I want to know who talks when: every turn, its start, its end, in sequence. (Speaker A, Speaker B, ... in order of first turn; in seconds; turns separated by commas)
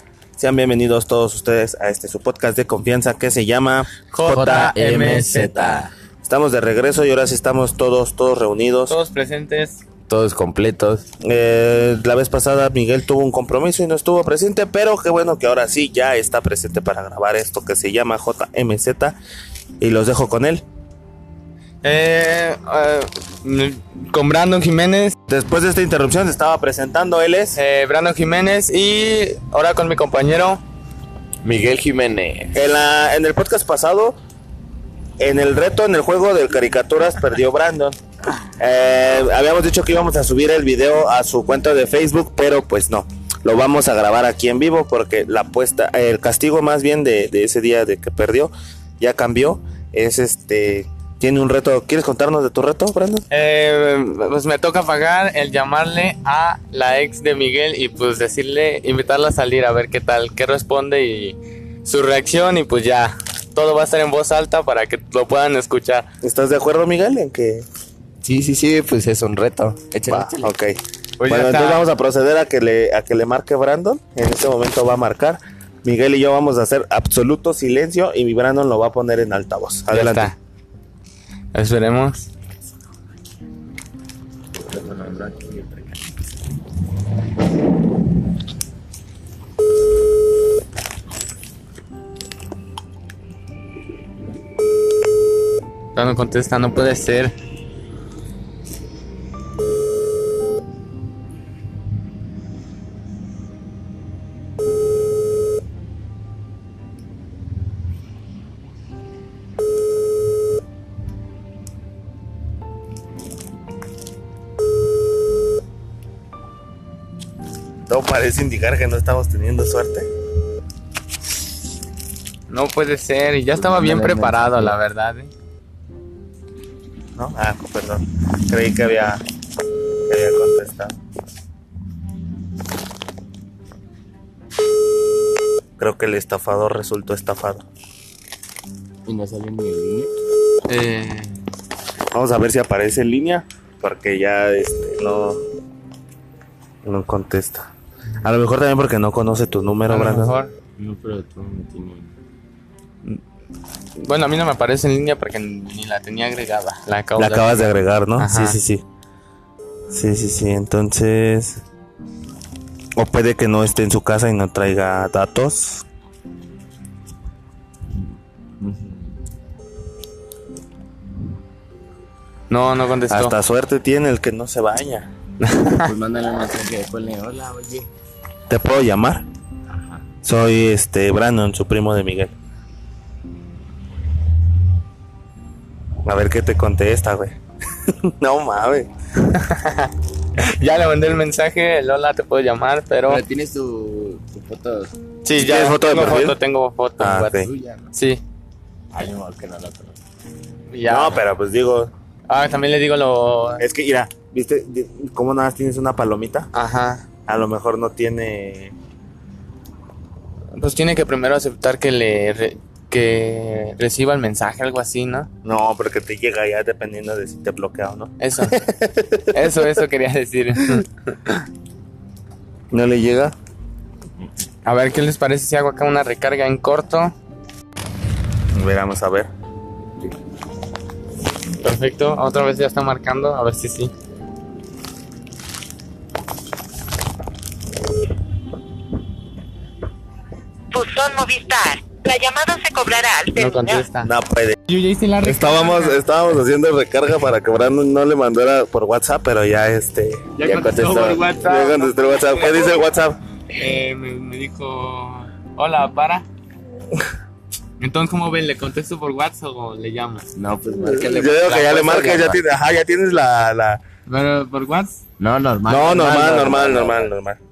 Speaker A: 0.4-3.9, Speaker B: 4.1-5.9, Speaker C: 4.2-5.9, Speaker A: 6.2-8.9, Speaker B: 8.9-9.8, Speaker C: 10.1-11.1, Speaker A: 11.2-19.2, Speaker A: 19.8-20.6, Speaker B: 21.8-25.1, Speaker A: 25.3-27.6, Speaker B: 27.5-30.6, Speaker C: 31.4-32.6, Speaker A: 32.5-34.2, Speaker A: 35.2-38.0, Speaker A: 38.6-53.3, Speaker B: 53.3-66.1, Speaker A: 66.2-67.6, Speaker C: 68.2-70.5, Speaker A: 70.0-80.3, Speaker B: 71.2-71.8, Speaker B: 79.9-80.3, Speaker B: 81.5-82.3, Speaker C: 84.7-86.0, Speaker B: 95.9-97.3, Speaker A: 117.9-120.1, Speaker B: 122.5-125.3, Speaker C: 123.5-124.8, Speaker A: 127.2-129.2, Speaker A: 130.1-131.0, Speaker A: 135.8-137.6, Speaker C: 139.1-140.1, Speaker B: 140.7-141.3, Speaker A: 142.1-145.4, Speaker A: 146.8-147.7, Speaker A: 148.2-150.3, Speaker B: 149.9-150.5, Speaker C: 150.8-152.1, Speaker B: 154.0-158.6, Speaker A: 157.2-158.8, Speaker A: 159.9-161.6, Speaker A: 162.9-165.8, Speaker B: 172.5-173.3, Speaker A: 173.1-175.1, Speaker B: 175.4-175.9, Speaker C: 175.8-177.9, Speaker A: 178.5-179.2, Speaker C: 179.7-180.0, Speaker A: 180.2-182.3, Speaker A: 186.0-187.3, Speaker A: 187.9-188.9, Speaker B: 189.2-189.9, Speaker B: 190.4-193.2, Speaker C: 193.1-194.9, Speaker B: 195.2-198.2, Speaker A: 195.3-196.3, Speaker A: 197.0-197.5, Speaker C: 197.3-197.9, Speaker C: 198.9-199.9, Speaker B: 200.7-201.2, Speaker A: 200.9-201.9, Speaker B: 202.3-203.6, Speaker A: 203.6-206.5, Speaker B: 206.5-207.0, Speaker A: 207.3-208.7, Speaker B: 210.5-215.3, Speaker A: 215.4-219.7, Speaker B: 218.2-218.6, Speaker B: 219.3-221.4, Speaker A: 222.7-223.3, Speaker B: 224.6-227.1, Speaker A: 228.5-229.3, Speaker B: 231.6-233.9, Speaker D: 240.7-243.8, Speaker B: 243.3-244.1, Speaker A: 244.0-244.6, Speaker B: 244.7-246.0, Speaker A: 245.2-250.3, Speaker B: 250.3-252.7, Speaker C: 250.4-251.3, Speaker A: 251.4-253.2, Speaker B: 253.5-256.2, Speaker B: 257.8-260.2, Speaker C: 260.4-262.4, Speaker A: 260.8-263.8, Speaker B: 261.3-261.8, Speaker B: 264.1-265.0, Speaker C: 265.2-267.1, Speaker A: 265.7-267.4